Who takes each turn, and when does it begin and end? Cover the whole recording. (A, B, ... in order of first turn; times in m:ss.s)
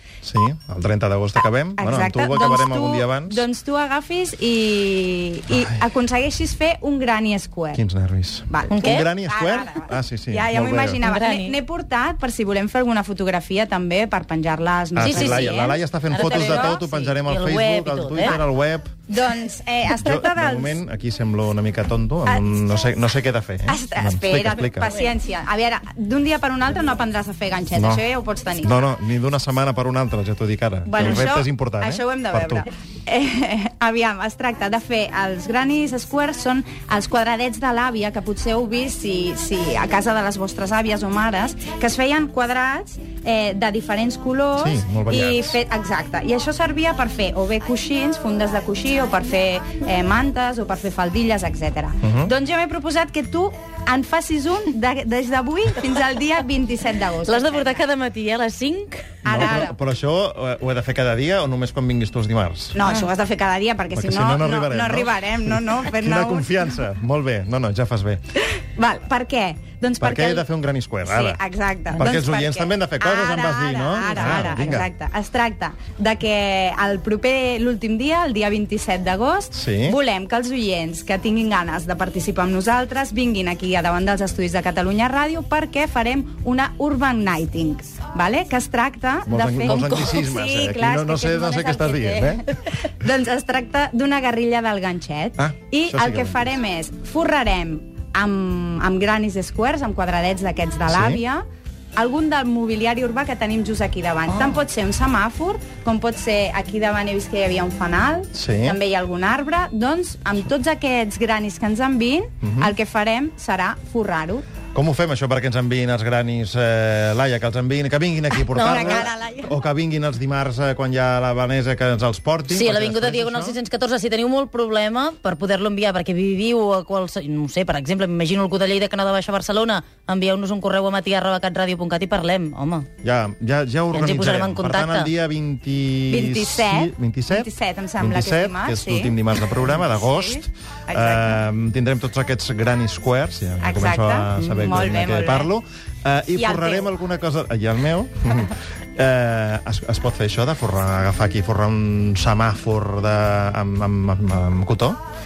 0:00.2-0:03.4 A
0:01.8-0:07.8 B
0:07.7-0:11.0 A
0:08.5-0:16.8 B
0:08.7-0:09.1 C
0:11.0-0:11.5 C
0:15.0-0:18.9 A
0:15.0-0:18.3 C
0:18.2-0:18.4 B
0:19.1-0:20.8 B
0:19.9-0:25.0 A
0:22.2-0:22.6 B
0:23.6-0:28.8 B
0:27.7-0:28.0 A
0:28.6-0:32.6 A
0:30.8-0:57.8 B
0:44.6-0:45.6 A
0:52.0-0:52.3 A
0:57.2-0:59.2 C
0:59.2-1:03.0 A
0:59.2-0:59.7 B
1:02.7-1:06.8 B
1:03.9-1:08.2 A
1:08.4-1:10.5 B
1:10.0-1:11.4 A
1:11.0-1:41.4 B
1:11.9-1:14.9 A
1:19.5-1:20.0 A
1:29.3-1:32.4 A
1:29.7-1:30.2 C
1:35.4-1:36.5 A
1:40.9-1:41.2 A
1:42.0-1:54.4 B
1:48.3-1:48.8 A
1:52.4-1:52.7 A
1:54.7-2:03.6 A
1:58.5-1:59.1 C
1:58.6-1:59.5 B
2:02.5-2:12.9 C
2:13.0-2:35.0 A
2:13.9-2:15.1 C
2:16.1-2:19.2 B
2:19.8-2:21.4 B
2:23.6-2:25.5 B
2:26.3-2:26.9 B